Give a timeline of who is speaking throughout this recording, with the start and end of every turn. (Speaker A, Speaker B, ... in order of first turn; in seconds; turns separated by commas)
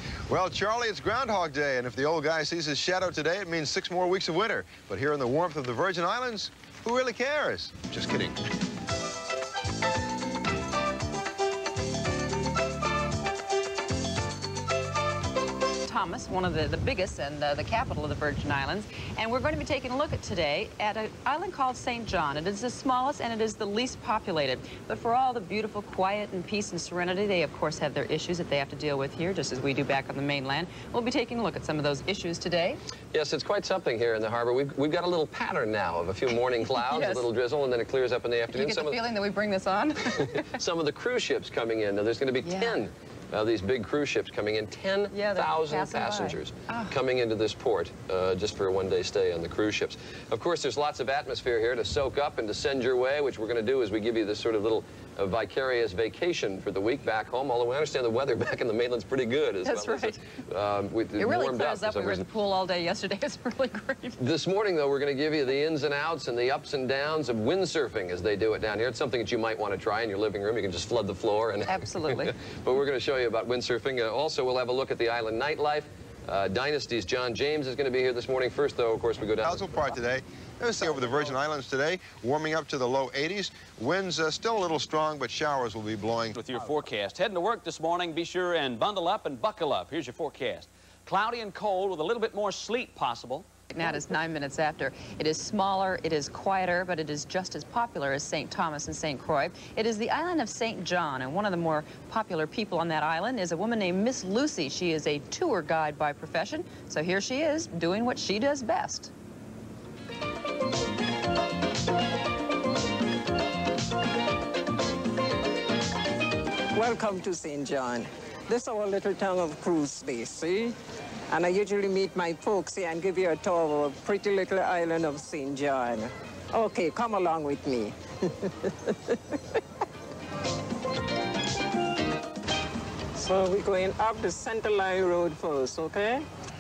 Speaker A: 0.3-8.4, Speaker B: 15.9-32.8, Speaker C: 33.1-39.0, Speaker B: 36.8-37.2, Speaker B: 38.5-40.3, Speaker C: 40.6-62.3, Speaker B: 42.4-42.8, Speaker B: 45.1-47.0, Speaker B: 59.6-60.2, Speaker B: 61.2-64.2, Speaker C: 64.2-79.9, Speaker B: 71.7-72.3, Speaker A: 79.4-86.4, Speaker D: 86.3-93.5, Speaker B: 93.7-109.1, Speaker E: 116.7-120.8, Speaker E: 121.3-129.2, Speaker E: 133.2-136.3